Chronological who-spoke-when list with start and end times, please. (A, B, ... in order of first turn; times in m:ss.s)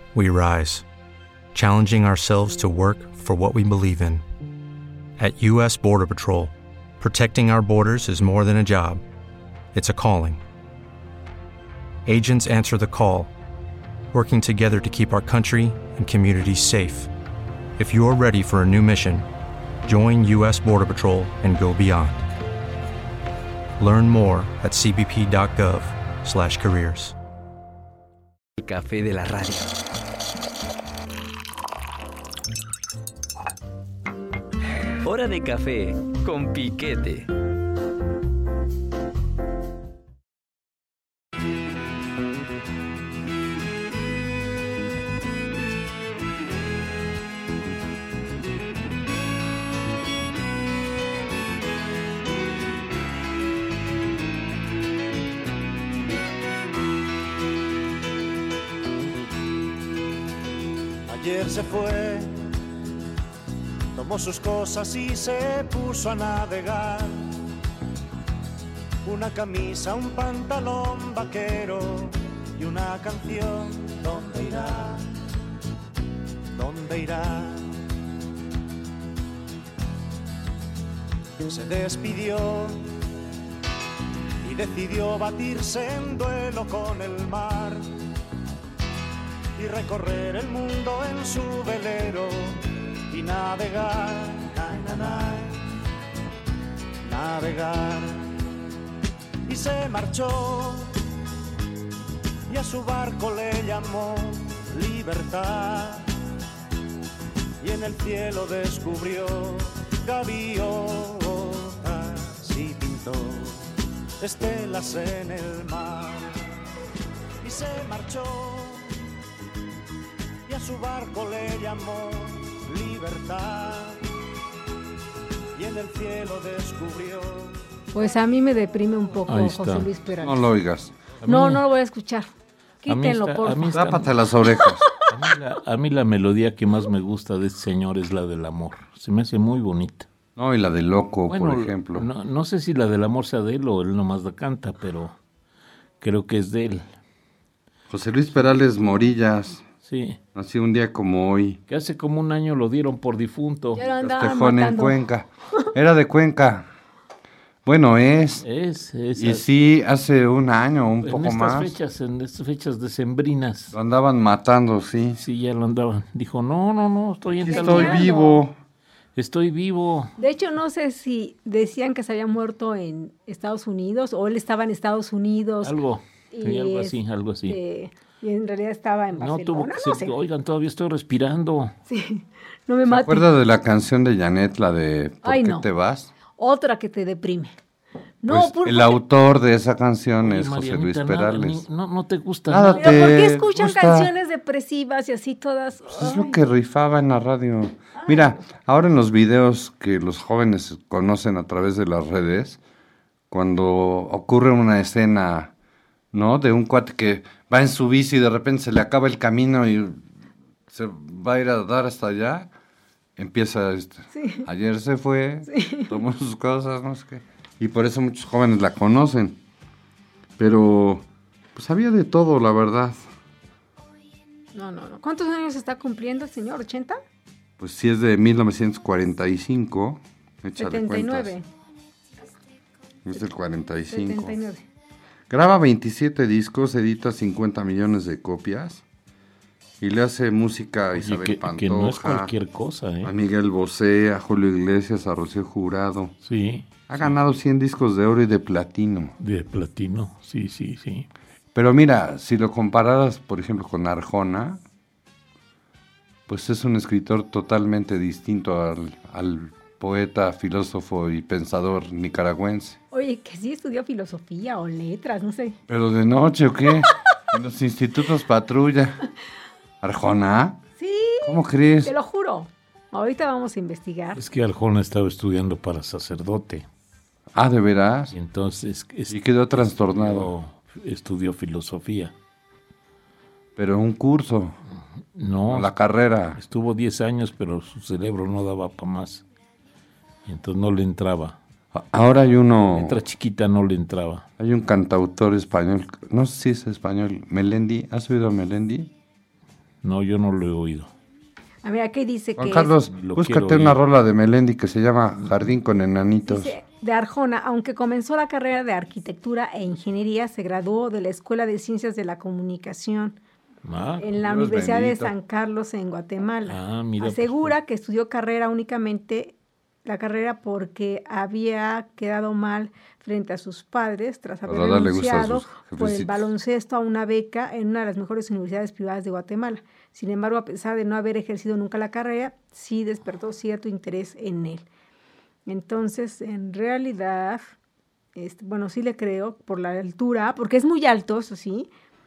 0:00.1-0:00.8 A
0:01.5-0:04.2 A
0:05.2-0:09.0 A
0:09.7-0:10.4 A
0:12.1-0:13.3 A
0:14.1-0:17.1 A
0:17.8-0:19.3 A
0:19.8-0:22.2 A
0:23.8-0:27.2 A
0:28.6-0:29.8 B
0:35.0-0:37.3 B
1:01.1-1:02.3 C
1:03.9-1:07.4 C
1:09.0-1:15.1 C
1:16.5-1:17.7 C
1:21.4-1:22.9 C
1:24.4-1:27.9 C
1:29.6-1:35.6 C
1:37.0-1:38.4 C
1:39.5-1:41.0 C
1:42.5-1:46.1 C
1:47.6-1:56.4 C
1:57.4-1:59.0 C
2:00.5-2:04.0 C
2:05.5-2:07.6 C
2:07.9-2:10.4 D
2:09.3-2:09.9 E
2:10.2-2:11.0 F
2:11.2-2:11.6 E
2:11.3-2:12.3 D
2:12.8-2:13.8 D
2:12.9-2:14.1 E
2:13.7-2:14.9 F
2:14.5-2:14.9 D
2:15.1-2:20.1 E
2:20.4-2:22.1 F
2:21.3-2:25.2 E
2:26.0-2:26.9 E
2:27.9-2:29.6 F
2:29.8-2:30.2 E
2:30.4-2:31.6 F
2:31.7-2:33.8 E
2:33.8-2:35.0 D
2:33.9-2:36.7 F
2:37.6-2:38.4 F
2:38.4-2:39.5 E
2:39.2-2:41.7 F
2:41.0-2:43.8 E
2:43.7-2:45.2 F
2:45.2-2:48.1 E
2:47.4-2:48.5 F
2:47.5-2:48.4 D
2:49.2-2:50.1 E
2:50.2-2:55.8 D
2:55.6-2:57.6 E
2:56.3-3:00.2 D
2:59.2-3:01.7 E
3:01.9-3:03.3 D
3:02.9-3:06.1 F
3:05.2-3:05.6 D
3:06.4-3:07.6 D
3:08.2-3:09.0 D
3:08.3-3:11.6 F
3:10.2-3:13.2 E
3:12.5-3:14.1 F
3:12.8-3:16.4 D
3:15.9-3:22.6 F
3:23.3-3:25.5 F
3:26.1-3:30.0 F
3:30.7-3:32.5 F
3:33.2-3:39.4 F
3:34.1-3:34.5 D
3:35.5-3:35.9 D
3:40.4-3:43.0 F
3:44.5-3:47.0 D
3:47.6-3:51.3 F
3:50.6-3:51.5 D
3:53.0-3:54.4 F
3:53.9-3:54.6 D
3:55.3-3:58.8 F
3:59.8-4:02.3 F
4:00.9-4:03.1 E
4:03.0-4:06.1 F
4:06.2-4:07.1 E
4:06.9-4:09.2 F
4:09.2-4:11.1 E
4:11.5-4:14.6 F
4:16.3-4:22.8 F
4:22.9-4:25.6 D
4:25.7-4:29.0 F
4:29.8-4:30.6 F
4:30.8-4:34.2 D
4:31.2-4:31.9 F
4:34.2-4:36.7 E
4:37.3-4:38.1 F
4:38.1-4:42.1 E
4:39.1-4:40.3 F
4:43.6-4:44.6 F
4:45.2-4:45.7 E
4:45.5-4:46.4 F
4:46.4-4:49.2 E
4:50.3-4:51.4 E
4:51.7-4:53.0 F
4:52.6-4:54.3 E
4:54.4-4:58.9 F
4:59.8-5:00.9 E
5:01.6-5:02.8 D
5:02.4-5:06.5 F
5:02.9-5:03.8 E
5:06.3-5:13.2 D
5:13.6-5:14.0 E
5:14.0-5:34.7 D
5:14.2-5:15.1 F
5:16.5-5:17.5 E
5:24.5-5:26.3 F
5:35.5-5:37.5 D
5:38.2-5:41.7 D